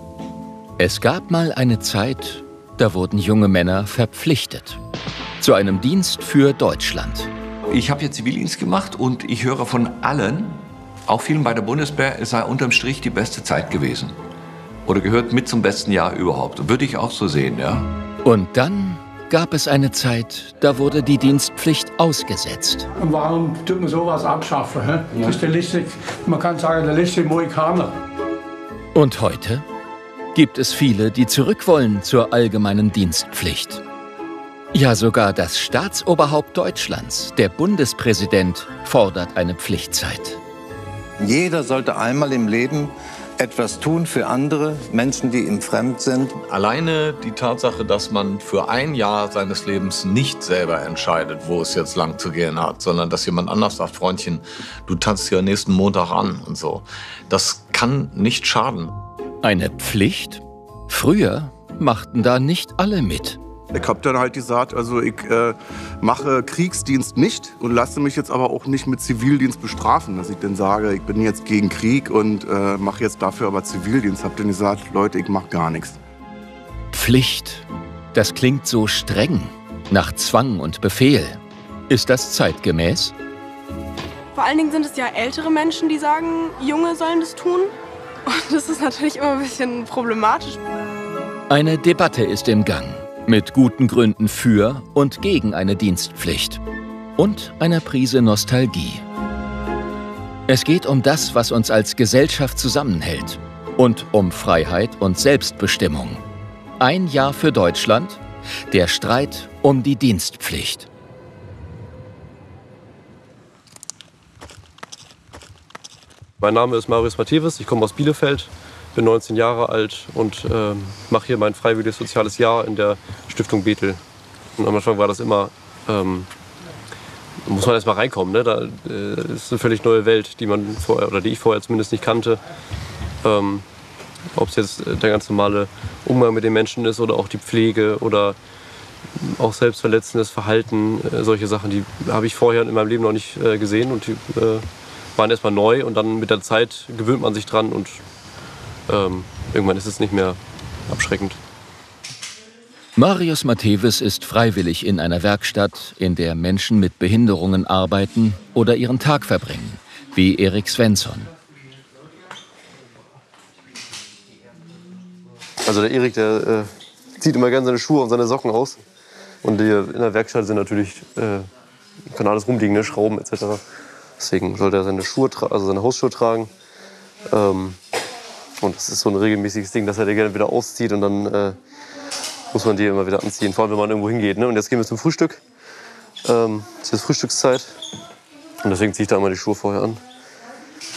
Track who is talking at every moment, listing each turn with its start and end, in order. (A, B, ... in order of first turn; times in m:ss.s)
0:00.8-0:04.8 A
0:05.4-0:07.3 A
0:07.7-0:14.2 B
0:14.8-0:17.9 B
0:18.2-0:22.9 A
0:23.0-0:27.9 C
0:29.0-0:29.7 A
0:30.3-0:33.8 A
0:34.7-0:40.4 A
0:41.2-0:46.3 D
0:46.4-0:59.0 E
0:59.4-1:03.4 A
1:03.7-1:16.0 F
1:16.9-1:23.1 A
1:24.3-1:27.7 G
1:28.3-1:30.6 G
1:31.5-1:36.6 A
1:37.2-1:39.0 A
1:40.5-1:46.2 A
1:46.8-1:50.9 A
1:56.4-2:04.0 H
2:04.6-2:06.3 H
2:07.4-2:12.4 H
2:13.2-2:13.7 H
2:14.3-2:18.4 H
2:19.2-2:28.0 H
2:28.9-2:31.4 H
2:33.0-2:41.3 A
2:45.6-2:48.8 H
2:49.4-2:51.5 H
2:52.1-2:53.6 H
2:54.2-2:56.5 H
2:57.3-2:57.8 H
2:58.6-3:01.6 H
3:02.5-3:05.4 H
3:06.2-3:07.8 H
3:08.6-3:10.0 H